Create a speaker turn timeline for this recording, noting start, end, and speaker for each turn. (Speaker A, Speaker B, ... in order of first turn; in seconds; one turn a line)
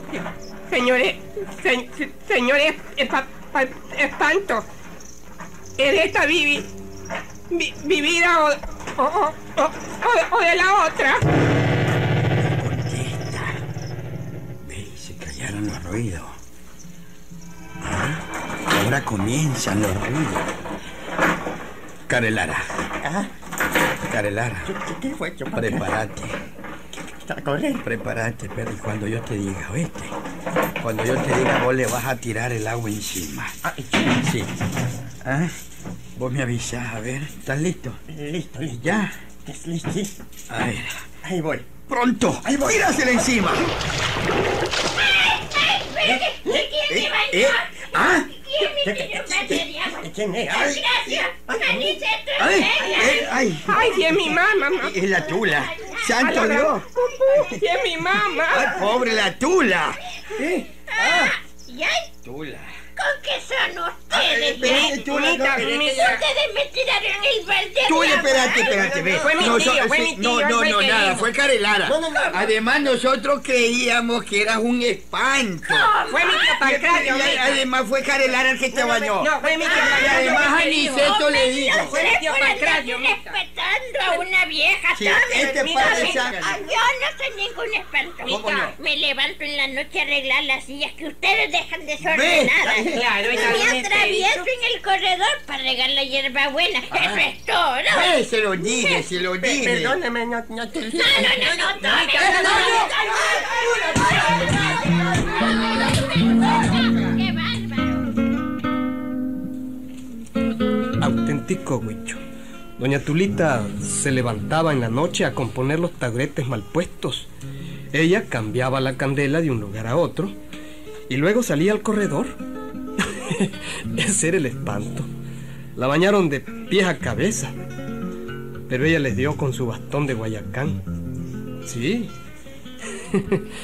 Speaker A: 0.7-4.7
Speaker A: 5.8-6.7
Speaker A: 7.5-11.2
Speaker B: 12.4-13.6
Speaker B: 14.6-16.3
Speaker B: 17.8-20.5
Speaker B: 22.1-22.8
Speaker C: 23.0-23.3
Speaker B: 24.1-24.7
Speaker C: 24.6-25.9
Speaker B: 25.5-26.4
Speaker C: 26.9-27.8
Speaker B: 27.8-30.1
Speaker B: 30.8-34.5
Speaker C: 33.6-34.1
Speaker B: 35.2-35.5
Speaker B: 36.2-38.0
Speaker C: 38.1-40.1
Speaker B: 38.6-39.1
Speaker B: 40.5-41.0
Speaker C: 41.2-41.7
Speaker B: 41.9-43.7
Speaker C: 42.4-42.8
Speaker D: 45.0-53.9
Speaker C: 46.0-46.6
Speaker B: 46.9-48.3
Speaker C: 48.6-49.2
Speaker B: 49.2-49.7
Speaker C: 50.0-50.8
Speaker B: 50.5-50.8
Speaker C: 51.5-52.1
Speaker B: 52.4-57.6
Speaker A: 53.7-55.0
Speaker D: 55.2-56.1
Speaker A: 56.2-58.8
Speaker B: 58.5-61.3
Speaker D: 60.9-62.0
Speaker B: 62.2-62.7
Speaker D: 63.0-65.0
Speaker B: 64.1-65.8
Speaker A: 64.6-66.2
Speaker D: 65.6-68.8
Speaker B: 67.8-75.9
Speaker C: 68.6-69.5
Speaker A: 69.2-71.3
Speaker D: 69.3-69.6
Speaker C: 71.8-72.5
Speaker D: 75.7-77.4
Speaker A: 76.1-77.6
Speaker B: 76.6-82.0
Speaker C: 78.7-80.4
Speaker A: 79.2-81.2
Speaker D: 80.9-92.9
Speaker A: 81.8-83.4
Speaker A: 84.0-84.2
Speaker B: 84.9-86.5
Speaker A: 85.3-86.3
Speaker A: 88.2-88.7
Speaker B: 88.3-88.7
Speaker B: 92.0-92.5
Speaker C: 92.6-93.6
Speaker A: 92.8-94.5
Speaker D: 93.4-98.1
Speaker B: 97.9-100.0
Speaker D: 98.7-99.0
Speaker C: 99.4-101.7
Speaker D: 101.0-104.5
Speaker B: 101.9-103.7
Speaker D: 106.4-108.0
Speaker E: 111.0-112.2
Speaker E: 112.8-117.3
Speaker E: 117.9-120.4
Speaker E: 121.1-122.4
Speaker E: 123.0-125.1
Speaker E: 125.8-127.5
Speaker E: 128.7-130.8
Speaker E: 131.6-132.1
Speaker E: 133.1-133.4